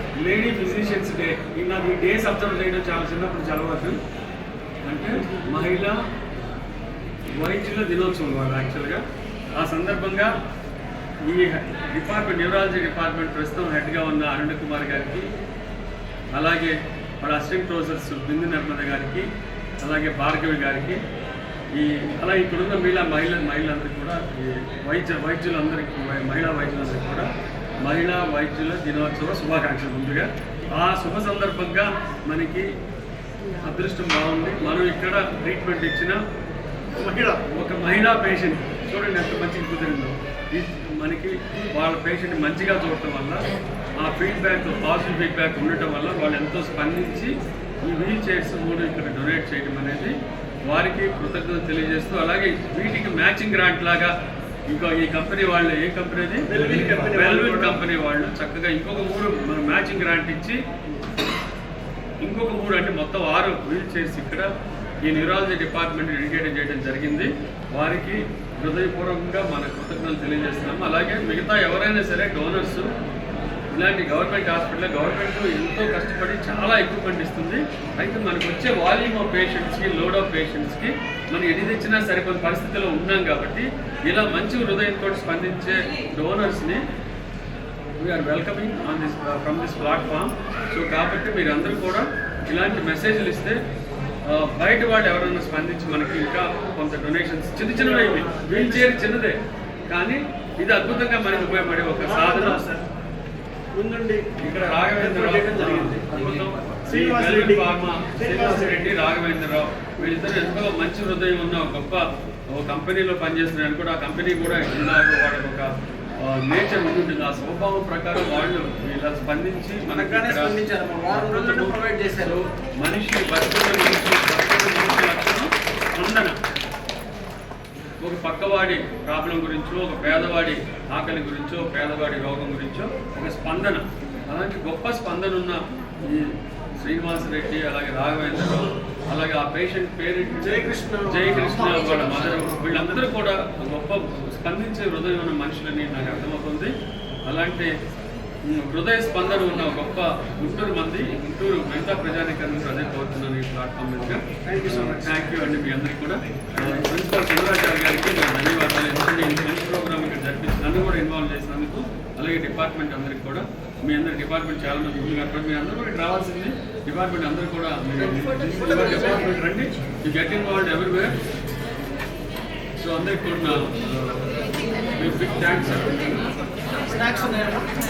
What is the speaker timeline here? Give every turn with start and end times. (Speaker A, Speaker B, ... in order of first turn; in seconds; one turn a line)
Speaker A: 0.2-4.0
Speaker A: 4.8-6.0
Speaker A: 7.3-9.0
Speaker A: 9.6-10.3
Speaker A: 11.2-15.3
Speaker A: 16.3-19.3
Speaker A: 19.8-21.0
Speaker A: 21.7-27.3
Speaker A: 27.8-32.7
Speaker A: 33.6-36.2
Speaker B: 36.9-37.4
Speaker A: 37.5-43.5
Speaker A: 44.0-47.3
Speaker A: 47.8-50.1
Speaker A: 50.7-54.1
Speaker A: 54.7-60.6
Speaker B: 56.5-57.8
Speaker A: 62.2-64.5
Speaker A: 65.0-72.9
Speaker A: 73.7-86.8
Speaker A: 88.0-93.6
Speaker A: 94.2-99.4
Speaker B: 97.7-98.7
Speaker A: 99.9-102.6
Speaker B: 101.5-102.8
Speaker B: 103.7-104.2
Speaker A: 104.4-115.7
Speaker B: 105.0-108.9
Speaker A: 116.2-126.3
Speaker B: 119.9-122.4
Speaker A: 128.0-146.7
Speaker B: 140.4-143.1
Speaker A: 147.2-147.7
Speaker A: 148.5-171.1
Speaker B: 154.4-155.3
Speaker A: 172.8-174.3
Speaker A: 174.9-176.2
Speaker B: 176.8-177.7